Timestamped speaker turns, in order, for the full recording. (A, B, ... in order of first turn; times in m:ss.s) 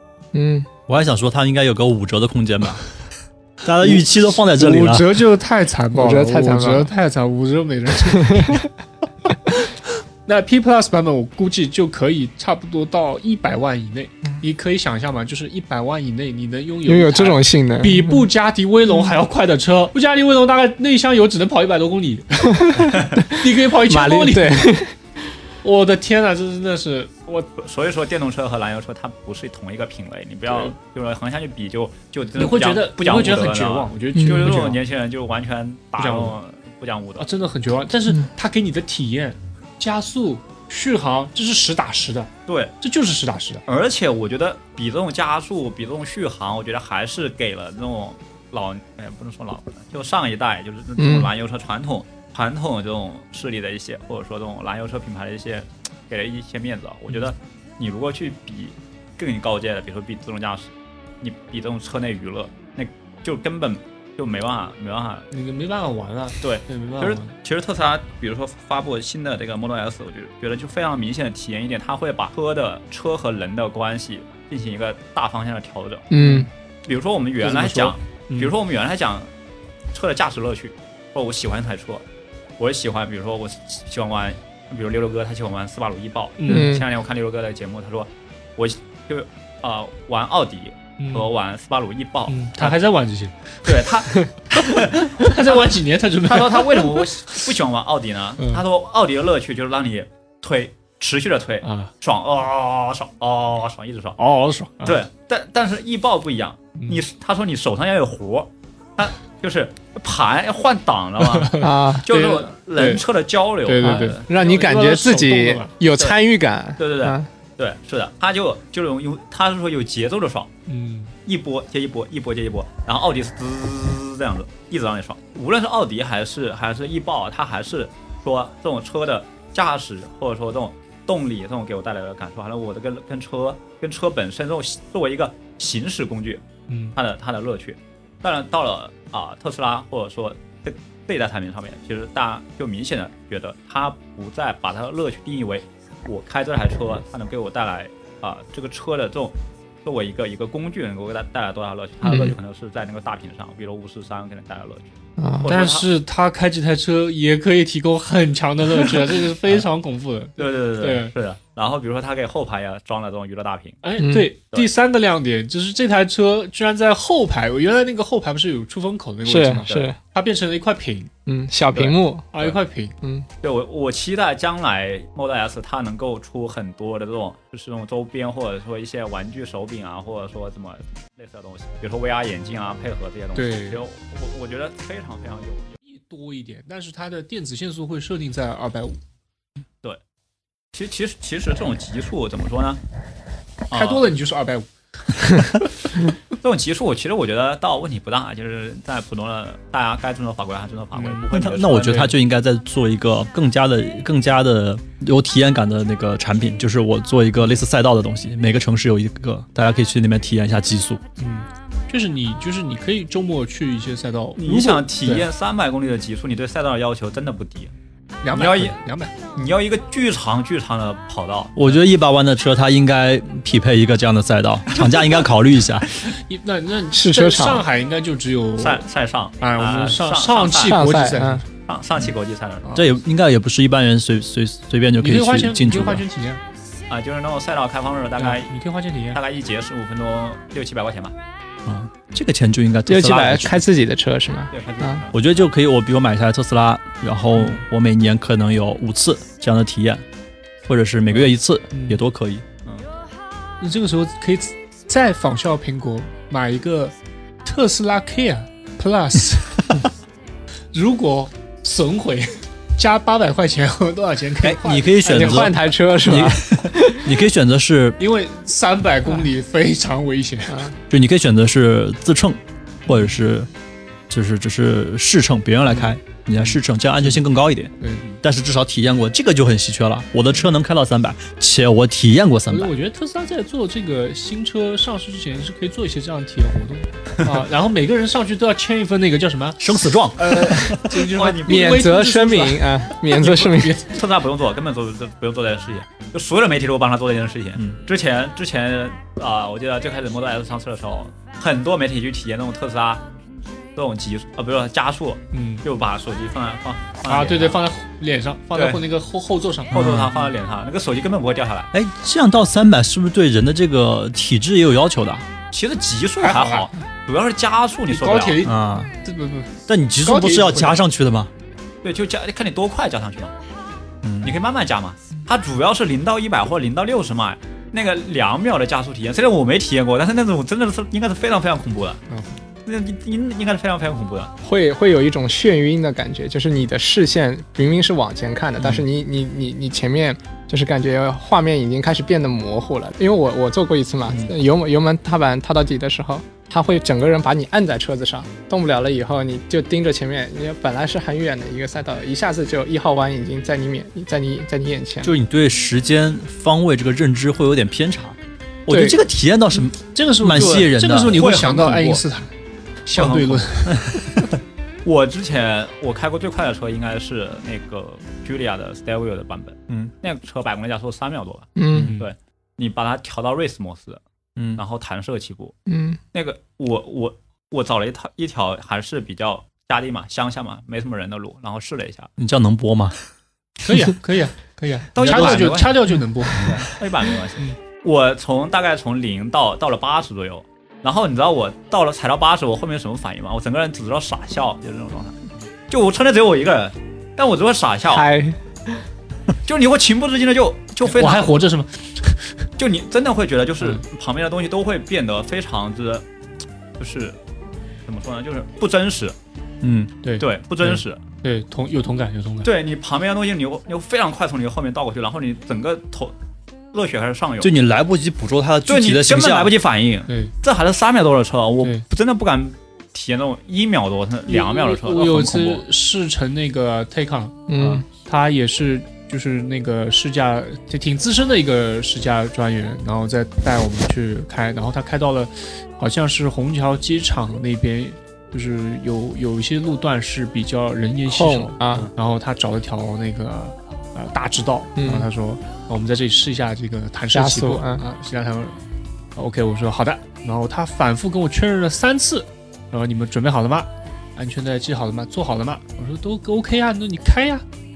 0:00.3-0:00.7 A
0:00.9-0:02.9 B
0:03.6-0:05.1 B
0:03.8-0:08.6 C
0:05.9-0:06.9 A
0:08.1-0:08.7 A
0:09.6-0:24.8 C
0:16.8-0:18.3 A
0:22.5-0:24.9 A
0:25.6-0:27.5 C
0:27.6-0:37.3 D
0:30.5-0:30.7 C
0:32.4-0:34.8 C
0:34.1-0:34.6 A
0:36.0-0:36.4 C
0:37.2-0:43.6 C
0:42.5-0:42.7 D
0:43.6-1:05.3 D
0:51.0-0:51.3 A
1:05.3-1:07.3 C
1:06.4-1:16.2 D
1:16.1-1:16.5 A
1:16.1-1:16.5 C
1:16.8-1:19.3 D
1:17.4-1:18.5 C
1:19.9-1:22.0 D
1:22.6-1:32.8 D
1:26.4-1:26.7 C
1:26.5-1:26.9 A
1:31.0-1:31.3 C
1:32.3-1:37.2 C
1:33.6-1:35.6 D
1:36.2-1:44.2 D
1:38.4-1:38.6 C
1:41.6-1:41.9 C
1:44.2-1:45.0 C
1:44.8-1:54.2 D
1:46.8-1:47.0 C
1:51.2-1:53.0 C
1:51.6-1:52.1 A
1:53.6-1:55.7 C
1:53.8-1:57.3 A
1:56.8-2:00.5 D
2:00.7-2:01.1 C
2:01.2-2:16.4 D
2:16.7-2:17.0 C
2:16.9-2:35.9 D
2:32.0-2:32.3 A
2:35.2-2:35.6 A
2:35.4-2:41.1 C
2:40.4-2:43.8 D
2:43.8-2:51.1 C
2:44.0-2:44.3 A
2:49.2-2:50.0 A
2:51.2-2:52.3 A
2:51.7-2:52.6 D
2:52.3-2:53.0 C
2:53.0-2:53.3 A
2:53.4-3:05.8 D
3:03.3-3:03.8 C
3:05.8-3:09.0 C
3:10.7-3:12.8 D
3:13.7-3:14.1 D
3:13.7-3:14.7 C
3:15.2-3:15.5 C
3:16.4-3:22.1 D
3:20.9-3:21.3 C
3:21.3-3:31.0 B
3:31.2-3:35.3 C
3:34.4-3:37.7 D
3:38.2-3:39.1 C
3:38.3-3:38.8 D
3:39.3-3:41.8 D
3:41.6-3:46.0 B
3:46.1-3:48.8 C
3:46.9-3:47.6 A
3:48.6-3:50.9 D
3:49.4-3:51.4 C
3:50.6-3:51.4 A
3:51.6-3:52.7 D
3:52.6-3:52.9 C
3:52.7-3:56.0 B
3:55.0-3:56.4 C
3:56.9-3:58.5 D
3:58.2-3:59.2 C
3:59.1-4:01.1 D
4:01.6-4:03.6 B
4:02.9-4:05.0 A
4:04.5-4:05.4 D
4:05.1-4:10.0 B
4:10.7-4:12.4 B
4:11.1-4:12.0 C
4:13.6-4:19.8 C
4:20.7-4:25.6 C
4:24.4-4:28.0 B
4:25.0-4:27.2 A
4:28.0-4:30.7 C
4:30.5-4:30.8 A
4:30.9-4:33.5 B
4:32.9-4:33.2 C
4:34.1-4:42.7 B
4:36.5-4:37.2 C
4:42.5-4:54.0 C
4:49.6-4:50.8 B
4:51.0-4:51.8 D
4:51.4-4:53.8 A
4:53.8-5:03.0 D
5:03.7-5:07.6 D
5:05.3-5:05.6 C
5:07.1-5:09.8 C
5:08.5-5:08.8 D
5:09.7-5:10.2 B
5:09.7-5:11.7 D
5:11.7-5:15.2 B
5:15.5-5:18.4 D
5:16.2-5:16.7 C
5:17.9-5:20.8 C
5:18.4-5:18.9 B
5:19.7-5:21.3 B
5:21.8-5:23.3 D
5:24.0-5:24.3 B
5:24.2-5:32.0 D
5:32.1-5:32.4 C
5:32.6-5:34.3 D
5:34.4-5:55.1 A
5:55.0-5:58.2 B
5:58.7-6:01.2 B
5:58.7-5:59.0 A
5:59.9-6:02.3 C
6:00.3-6:02.0 D
6:02.8-6:03.8 C
6:02.9-6:03.6 D
6:04.8-6:14.0 D
6:11.6-6:11.9 A
6:11.7-6:12.0 B
6:14.6-6:15.5 D
6:15.7-6:16.0 A
6:16.1-6:22.1 D
6:22.2-6:23.0 B
6:23.6-6:26.8 C
6:24.9-6:25.8 D
6:25.0-6:25.6 B
6:26.3-6:38.1 D
6:37.9-6:38.8 A
6:39.4-6:41.3 D
6:40.8-6:42.4 C
6:42.6-6:46.0 D
6:46.8-6:47.2 D
6:47.8-6:49.2 D
6:49.6-6:49.9 B
6:50.0-6:52.5 C
6:50.2-6:51.0 D
6:52.4-6:56.1 D
6:56.7-6:57.5 D
6:57.4-6:59.5 B
6:58.7-7:05.6 D
7:00.1-7:00.3 C
7:04.3-7:28.6 C
7:07.5-7:07.8 A
7:21.0-7:21.9 A
7:24.8-7:25.1 A
7:27.1-7:27.8 A
7:29.2-7:37.4 C